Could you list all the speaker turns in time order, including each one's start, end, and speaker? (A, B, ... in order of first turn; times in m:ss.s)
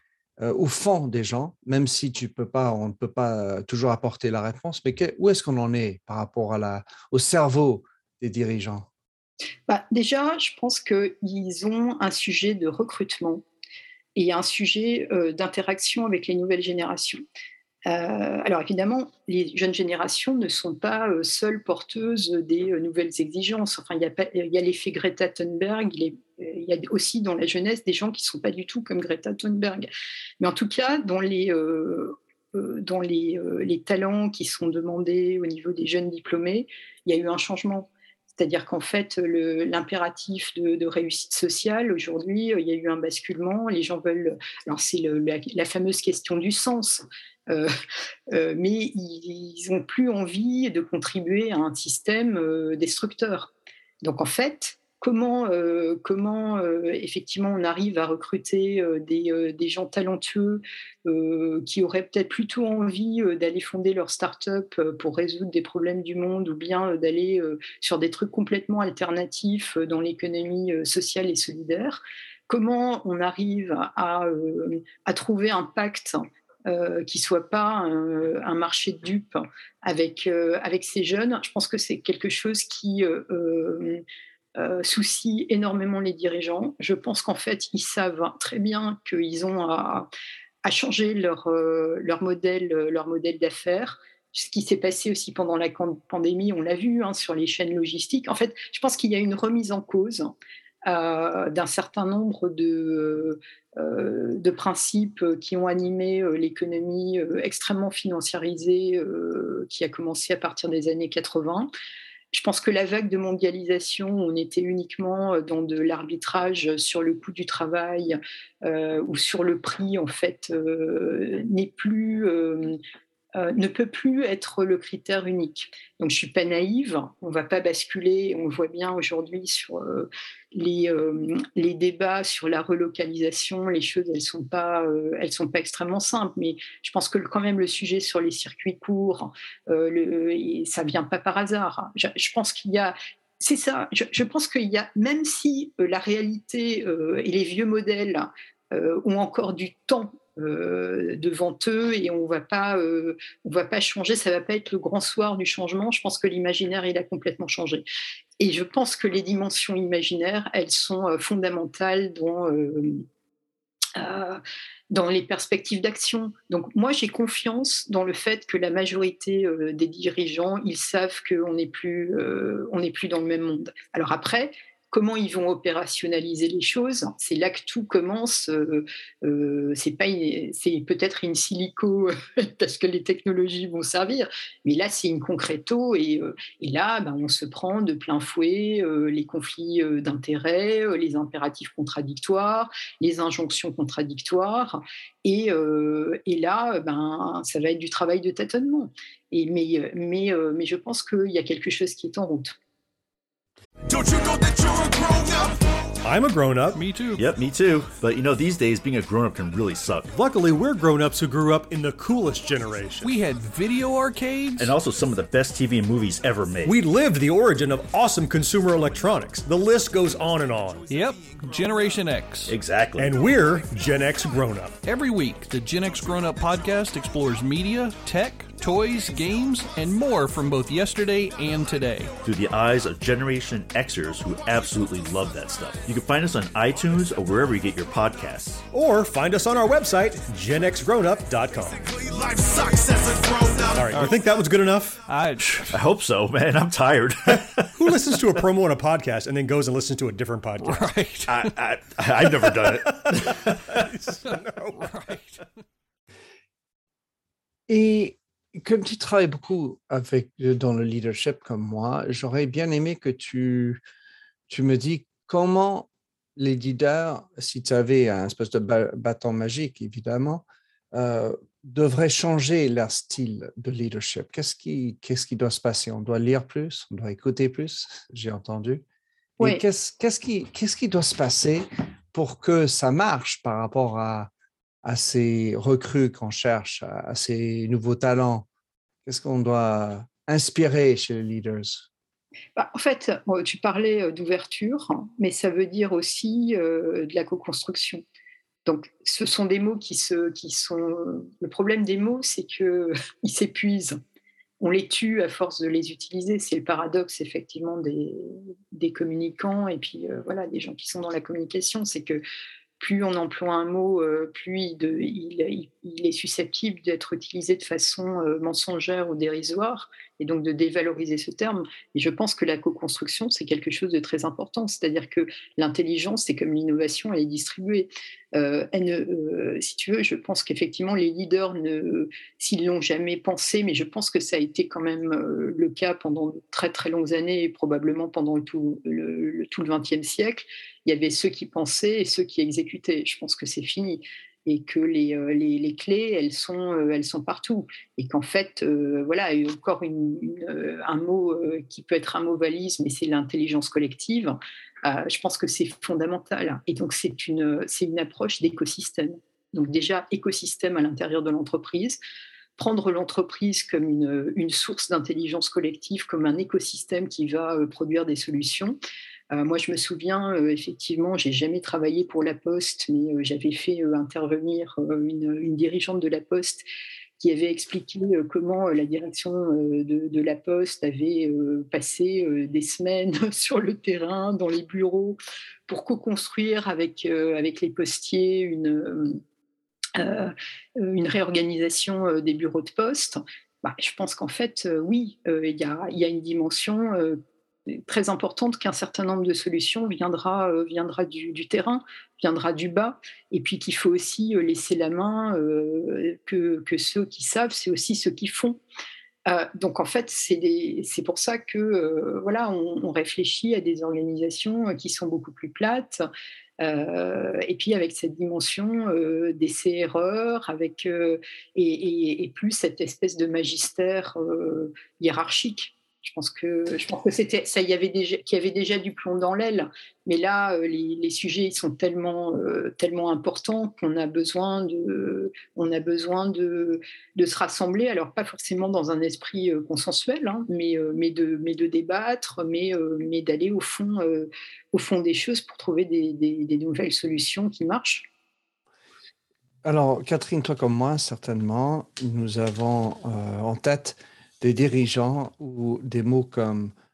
0:00.4-0:08.9 A
0:09.7-0:13.4 B
0:14.2-0:17.2 B
0:17.9-0:29.9 B
0:30.4-0:47.7 B
0:48.3-0:53.5 B
0:54.0-1:24.0 B
1:24.6-1:30.1 B
1:30.6-1:40.3 B
1:40.8-1:51.7 B
1:52.3-2:02.8 B
2:03.4-2:37.8 B
2:38.4-2:43.0 B
2:44.0-3:22.5 B
3:26.0-3:26.8 C
3:26.7-3:27.3 D
3:27.2-3:30.1 E
3:30.1-3:33.1 C
3:33.0-3:34.7 D
3:34.6-3:36.8 E
3:36.6-3:40.9 C
3:40.9-3:42.5 D
3:42.5-3:43.2 E
3:43.0-3:44.8 C
3:44.8-3:52.1 D
3:52.2-3:58.6 E
3:58.7-4:01.9 C
4:03.7-4:05.0 C
4:05.1-4:05.8 D
4:05.4-4:07.8 E
4:07.8-4:10.9 C
4:10.6-4:11.5 D
4:11.3-4:13.8 E
4:13.9-4:14.8 C
4:14.8-4:15.4 D
4:17.7-4:23.8 A
4:24.5-4:38.8 A
4:39.4-4:44.3 A
4:44.8-4:48.5 A
4:49.0-4:51.9 A
4:52.6-4:58.0 B
4:58.6-5:04.0 B
5:04.6-5:12.2 B
5:12.8-6:02.0 B
6:02.6-6:08.8 B
6:09.3-6:16.6 B
6:17.2-6:29.2 B
6:30.0-6:48.6 B
6:49.3-6:56.0 B
6:56.6-7:28.1 B
7:29.6-7:36.7 A